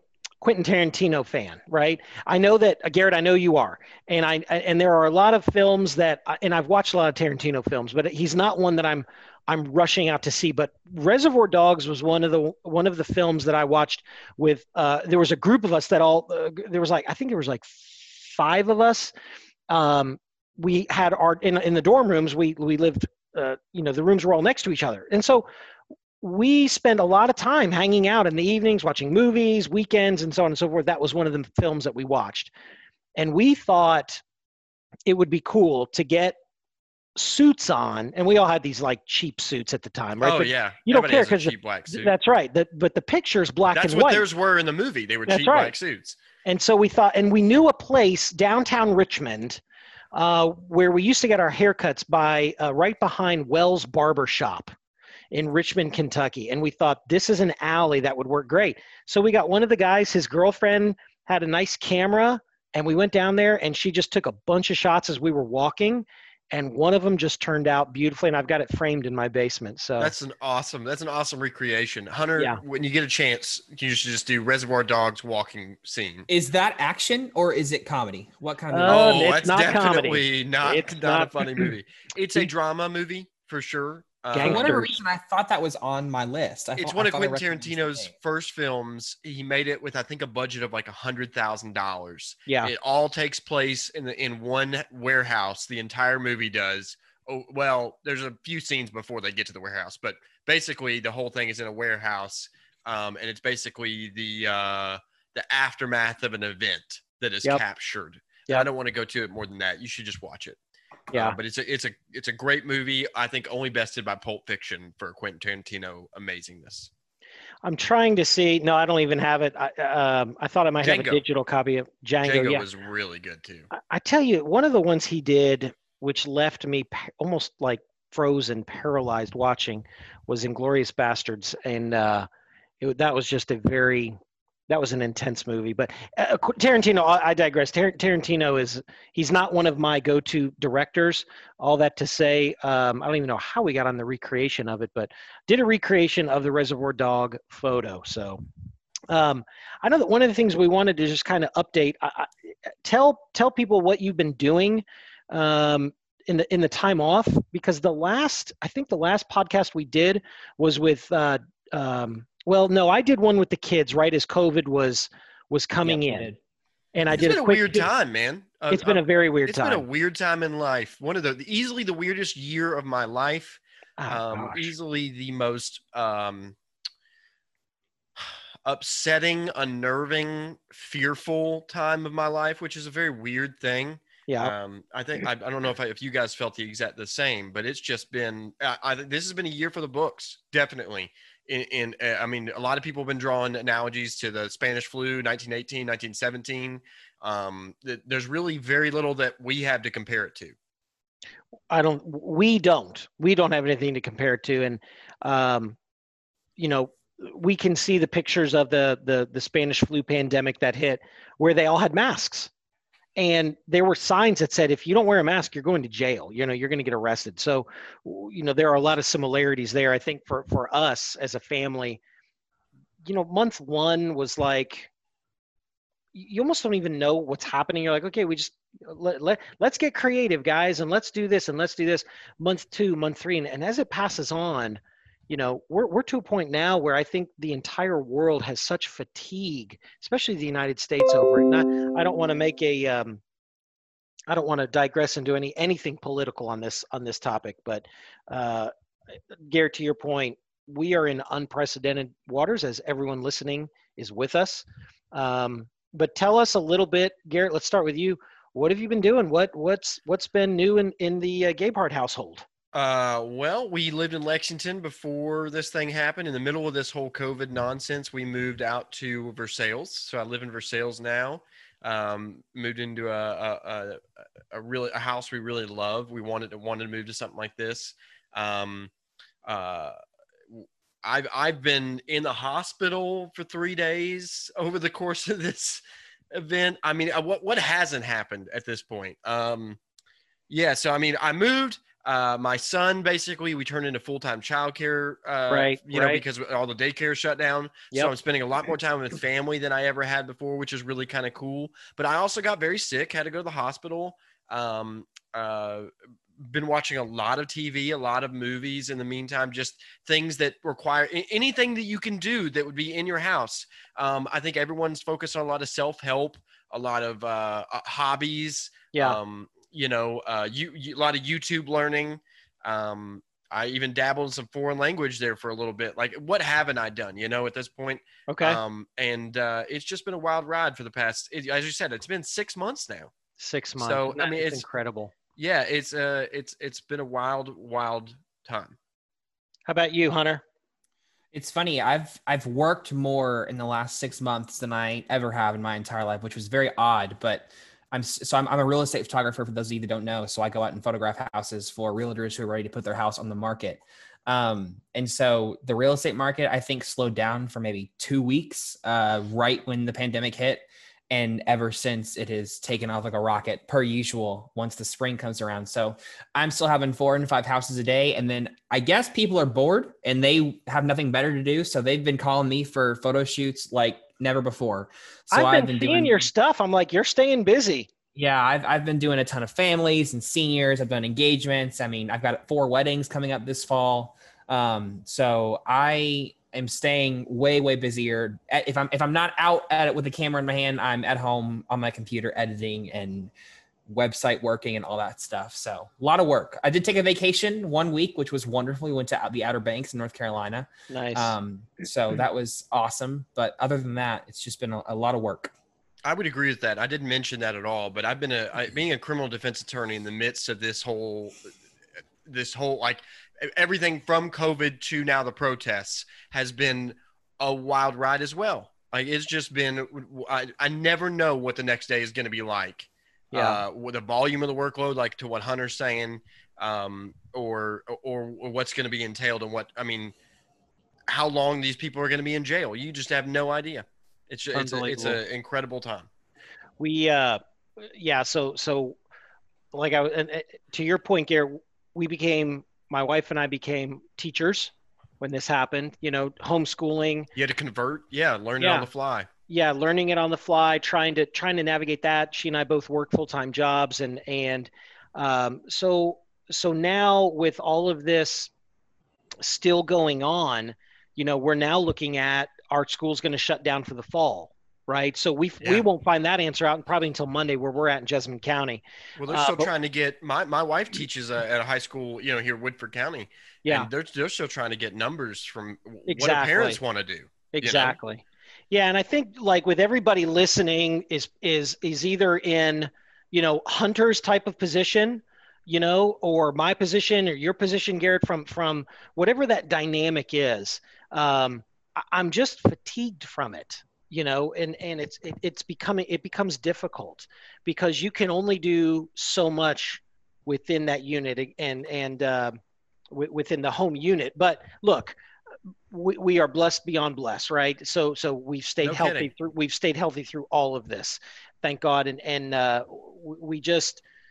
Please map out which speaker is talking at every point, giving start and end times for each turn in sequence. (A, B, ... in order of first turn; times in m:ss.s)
0:00.4-0:19.1 A
0:19.7-0:25.5 A
0:26.2-0:32.5 A
0:33.2-0:34.2 A
0:35.1-0:36.4 A
0:37.2-0:44.2 A
0:40.2-0:42.1 B
0:43.7-0:46.2 B
0:45.3-0:45.7 A
0:46.4-0:49.6 A
0:50.1-0:54.7 A
0:55.3-1:10.1 A
1:10.0-1:16.3 B
1:16.3-1:19.1 C
1:18.7-1:21.7 A
1:18.9-1:24.8 B
1:24.3-1:24.9 A
1:24.4-1:28.1 C
1:26.8-1:50.6 B
1:32.5-1:32.7 A
1:51.1-1:51.4 A
1:51.1-1:56.9 B
1:57.6-2:02.7 A
2:00.8-2:01.2 B
2:02.2-2:03.7 B
2:03.7-2:12.3 A
2:12.8-2:28.4 A
2:29.1-2:32.3 A
2:32.8-2:46.3 A
2:45.8-2:46.4 C
2:47.0-2:47.9 A
2:47.1-2:56.6 B
2:48.7-2:49.8 A
2:54.0-2:54.7 A
2:58.2-3:20.6 B
3:04.3-3:04.5 A
3:21.7-3:25.8 A
3:26.6-3:32.5 A
3:33.2-3:42.0 A
3:43.0-3:44.9 A
3:46.1-4:03.2 A
4:04.3-4:08.7 A
4:09.5-4:22.5 A
4:22.7-4:34.0 B
4:34.5-4:38.9 B
4:39.4-4:40.0 B
4:40.5-4:45.8 B
4:46.3-4:49.8 B
4:50.5-5:33.1 B
4:55.5-4:56.2 A
5:18.9-5:19.2 A
5:28.3-5:28.6 A
5:33.4-5:35.1 A
5:33.8-5:34.7 B
5:35.4-5:38.8 B
5:39.7-5:40.4 A
5:41.3-6:16.3 C
6:15.3-6:17.9 A
6:18.2-6:33.3 C
6:33.9-6:45.5 C
6:40.9-6:41.4 A
6:46.0-6:51.4 B
6:52.3-7:10.1 B
7:03.3-7:03.6 A
7:11.1-7:16.1 B
7:14.5-7:15.2 A
7:16.8-7:19.0 A
7:19.7-7:27.3 A
7:27.4-7:29.3 B
7:28.6-7:28.9 A
7:29.5-7:38.5 A
7:39.4-7:49.7 A
7:49.2-7:58.0 B
7:56.1-7:56.8 A
7:57.5-8:22.6 A
8:23.1-8:25.2 A
8:25.9-8:34.0 A
8:28.8-8:29.3 B